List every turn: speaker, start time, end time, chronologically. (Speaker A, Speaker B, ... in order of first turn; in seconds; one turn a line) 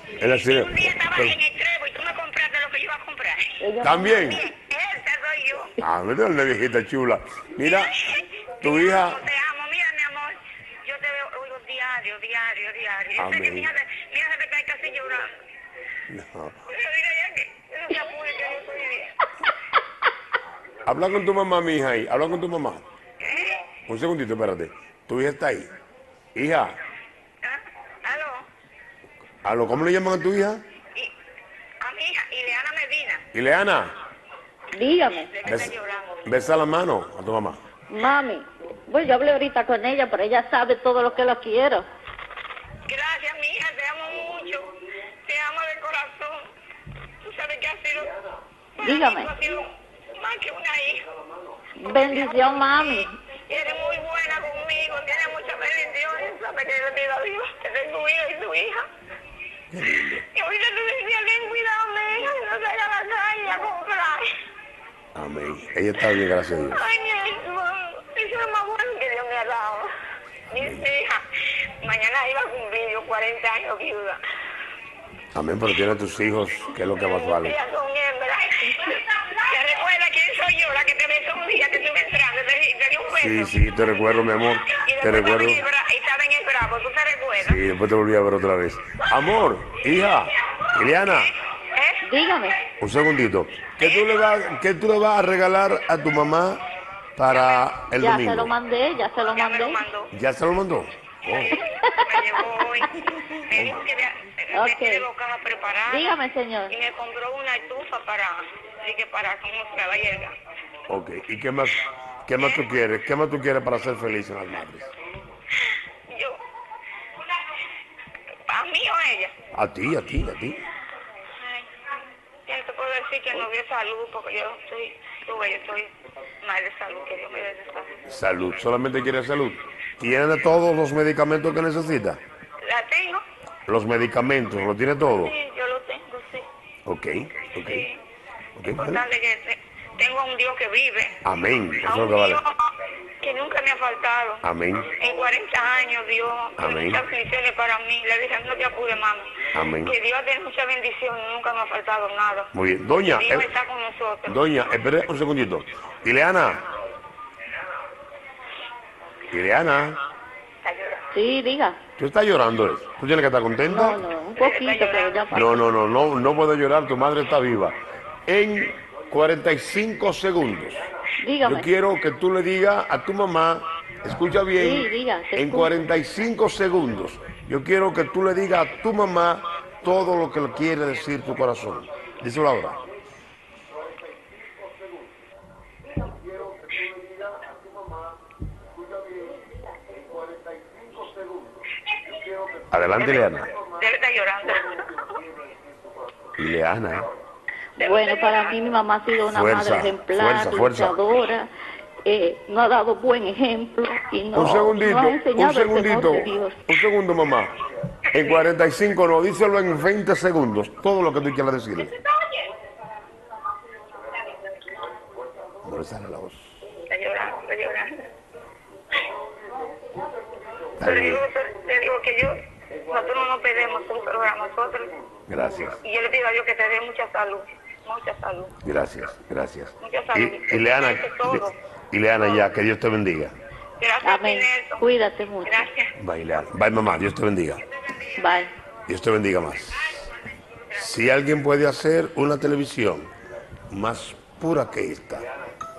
Speaker A: 0.2-1.4
Speaker B: 0.4-3.5
Speaker C: 3.6-4.4
Speaker A: 3.8-4.4
Speaker B: 4.1-5.8
Speaker A: 5.8-8.0
Speaker B: 7.6-15.3
Speaker A: 8.6-9.2
Speaker A: 13.2-13.7
Speaker A: 16.1-16.6
Speaker B: 16.7-19.1
Speaker A: 20.9-22.8
Speaker B: 23.2-23.6
Speaker A: 23.9-25.7
Speaker A: 26.3-26.7
Speaker B: 27.4-28.4
Speaker A: 29.4-30.6
Speaker B: 31.8-33.2
Speaker A: 33.3-33.9
Speaker C: 34.7-35.3
Speaker B: 35.2-36.2
Speaker A: 35.4-37.6
Speaker C: 37.9-41.9
Speaker B: 42.9-44.7
Speaker B: 45.2-46.5
Speaker B: 47.2-48.1
Speaker B: 48.8-49.7
Speaker C: 48.8-49.3
Speaker B: 50.2-51.0
Speaker C: 51.8-53.2
Speaker B: 51.9-58.8
Speaker A: 59.7-60.2
Speaker B: 60.3-64.2
Speaker A: 65.1-66.8
Speaker B: 66.7-69.9
Speaker B: 70.5-71.2
Speaker A: 70.6-70.8
Speaker B: 71.8-74.2
Speaker A: 75.3-77.6
Speaker B: 76.9-84.1
Speaker A: 83.1-85.6
Speaker B: 84.7-87.6
Speaker A: 87.4-91.3
Speaker B: 91.7-92.6
Speaker C: 92.0-92.5
Speaker A: 92.8-96.6
Speaker B: 93.8-94.2
Speaker A: 97.2-98.5
Speaker B: 97.3-97.7
Speaker C: 98.0-99.8
Speaker B: 99.3-100.1
Speaker A: 100.1-101.5
Speaker B: 101.5-110.3
Speaker C: 101.6-102.5
Speaker A: 103.5-103.8
Speaker C: 104.5-105.0
Speaker C: 105.9-106.7
Speaker A: 110.9-114.9
Speaker B: 112.4-112.7
Speaker B: 116.1-116.4
Speaker B: 118.5-119.3
Speaker A: 119.5-120.6
Speaker B: 122.5-128.0
Speaker A: 128.1-132.2
Speaker B: 132.6-133.2
Speaker A: 133.7-135.3
Speaker B: 135.0-136.5
Speaker A: 136.8-137.8
Speaker B: 137.6-138.0
Speaker A: 138.6-139.0
Speaker B: 138.7-141.2
Speaker A: 141.2-142.4
Speaker B: 141.8-142.6
Speaker B: 143.2-144.4
Speaker A: 144.4-144.9
Speaker B: 144.9-152.5
Speaker A: 146.6-147.0
Speaker A: 149.5-149.9
Speaker A: 152.5-153.5
Speaker B: 153.1-154.5
Speaker A: 154.2-156.6
Speaker A: 159.3-160.0
Speaker B: 160.6-161.0
Speaker C: 161.1-161.8
Speaker A: 162.0-164.0
Speaker C: 163.7-165.6
Speaker B: 164.4-165.3
Speaker A: 165.3-170.8
Speaker C: 171.2-171.7
Speaker A: 171.4-182.8
Speaker C: 174.6-175.7
Speaker A: 192.7-193.5
Speaker B: 193.0-194.9
Speaker A: 196.4-197.1
Speaker B: 197.8-198.6
Speaker C: 197.8-201.5
Speaker A: 199.3-201.0
Speaker C: 202.0-206.6
Speaker A: 204.3-207.5
Speaker A: 208.1-211.9
Speaker B: 208.1-208.4
Speaker B: 211.8-212.5
Speaker A: 215.6-216.6
Speaker B: 216.7-217.9
Speaker A: 220.8-221.2
Speaker B: 220.8-224.9
Speaker A: 225.3-225.8
Speaker B: 225.8-228.5
Speaker A: 228.6-233.3
Speaker B: 229.8-231.6
Speaker B: 233.8-234.8
Speaker C: 234.0-235.7
Speaker B: 235.4-235.9
Speaker A: 236.0-237.6
Speaker B: 237.7-238.5
Speaker C: 238.2-238.5
Speaker A: 238.9-239.9
Speaker A: 240.7-243.1
Speaker A: 243.7-245.3